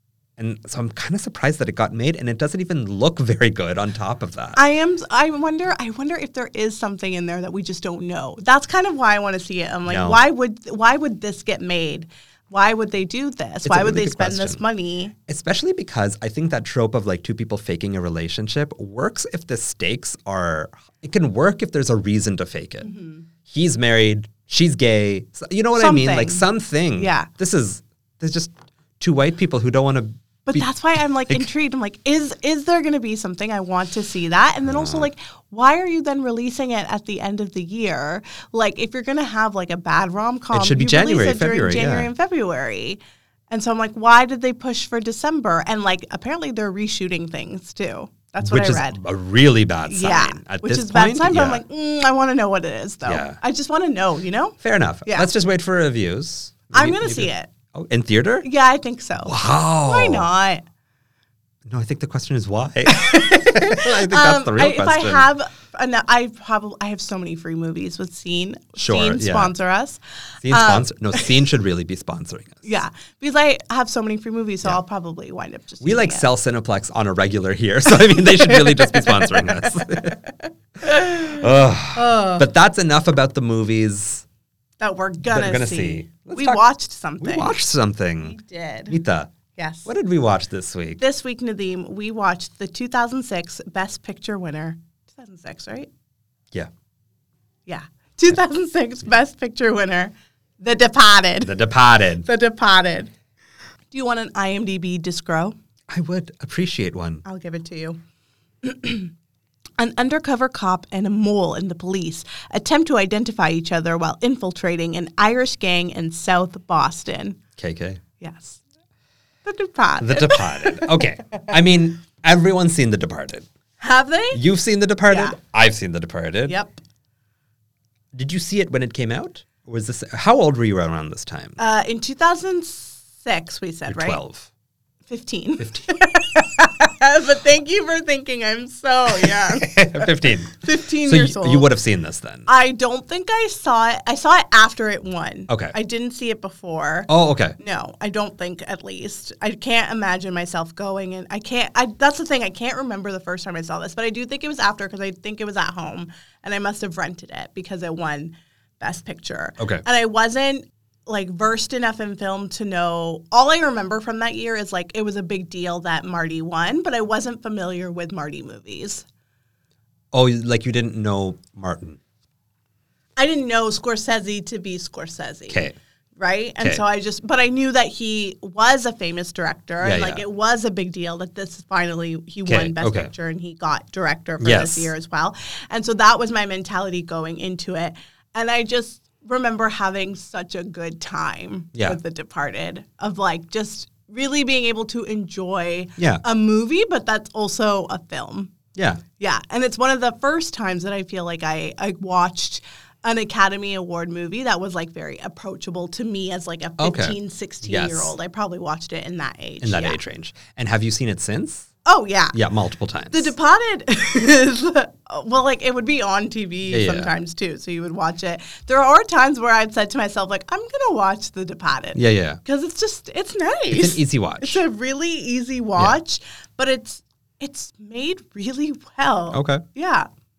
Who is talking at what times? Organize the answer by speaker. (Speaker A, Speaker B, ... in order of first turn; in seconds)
Speaker A: 0.4-4.6, 9.9-10.2, 13.6-14.6, 15.3-22.9, 23.5-30.7, 34.6-35.1, 40.5-42.1, 48.4-51.6, 53.0-53.4, 54.6-58.5, 59.2-60.3, 61.6-65.3, 68.8-69.5, 70.4-72.8, 75.8-80.2, 80.8-84.2, 85.3-86.6, 87.2-88.4, 88.9-89.3, 89.8-91.0, 101.4-102.3, 105.9-107.2, 117.6-118.0, 120.0-123.5, 124.3-126.5, 128.1-131.6, 133.9-134.5, 135.6-136.0, 139.2-142.5, 145.5-145.7, 147.1-147.6, 159.6-159.8, 170.1-172.0, 175.5-175.8, 179.8-180.2, 182.4-183.1, 184.4-184.9, 196.0-196.2, 198.8-199.0, 206.8-208.1, 209.6-211.7, 212.3-213.3, 216.7-217.1, 221.9-222.4, 223.7-224.6, 229.3-229.6
Speaker B: 4.5-15.1, 22.8-23.2, 25.8-27.3, 30.4-49.0, 49.8-55.3, 56.7-57.5, 58.4-60.6, 62.9-71.3, 72.6-76.3, 78.0-82.5, 84.8-87.6, 88.2-89.0, 89.5-89.9, 91.0-95.9, 97.7-101.5, 102.2-103.1, 103.9-105.5, 107.2-108.0, 108.6-109.1, 109.8-117.4, 118.2-118.6, 119.4-121.5, 123.8-124.4, 125.1-125.3, 126.5-126.8, 131.6-134.2, 135.1-141.7, 142.4-169.0, 173.2-175.7, 176.2-198.5, 199.2-210.0, 211.8-212.4, 213.1-230.1